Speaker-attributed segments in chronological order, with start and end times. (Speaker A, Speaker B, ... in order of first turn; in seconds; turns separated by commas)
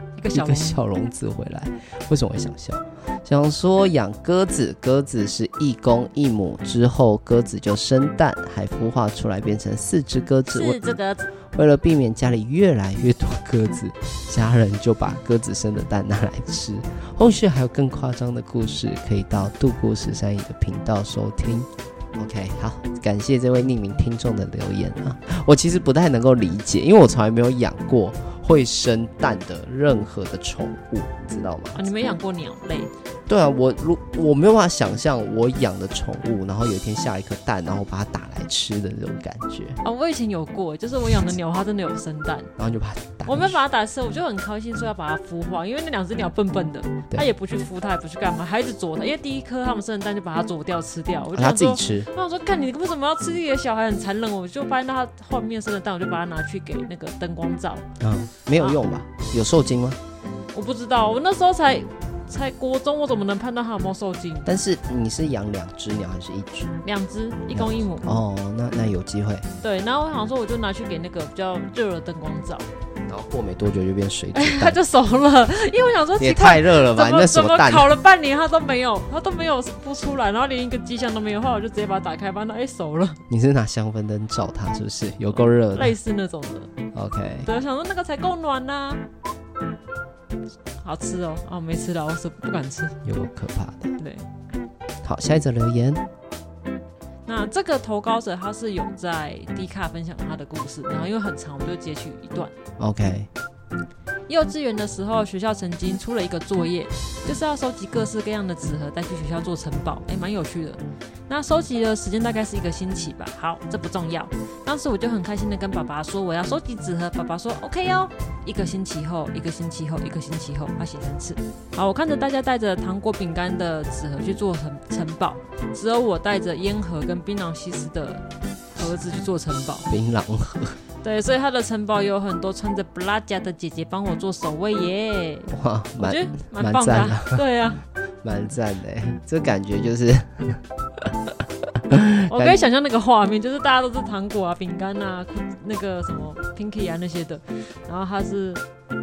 Speaker A: 0.2-0.8, Speaker B: 0.3-10.8, Speaker A: 10.5-11.3, Speaker B: 11.5-31.8, Speaker A: 31.7-32.9, Speaker B: 33.3-39.8, Speaker A: 39.8-42.5, Speaker B: 42.6-43.6, Speaker A: 43.2-57.9, Speaker B: 51.3-52.1, Speaker B: 58.0-60.0, Speaker A: 60.5-64.5, Speaker B: 64.4-66.8, Speaker A: 66.8-68.1, Speaker B: 67.5-69.5, Speaker A: 69.6-72.7, Speaker B: 73.1-74.8, Speaker A: 74.3-83.2, Speaker B: 76.2-77.9, Speaker B: 83.3-85.9, Speaker A: 85.3-86.7, Speaker B: 86.9-87.5, Speaker A: 87.4-89.0, Speaker A: 90.8-93.0, Speaker B: 93.0-94.0, Speaker A: 94.0-94.2, Speaker B: 95.0-96.0, Speaker A: 97.2-102.5, Speaker B: 102.8-103.3, Speaker A: 104.3-129.9, Speaker B: 129.9-130.8, Speaker A: 131.0-137.8, Speaker B: 135.5-137.4, Speaker B: 138.2-142.6, Speaker A: 142.3-148.6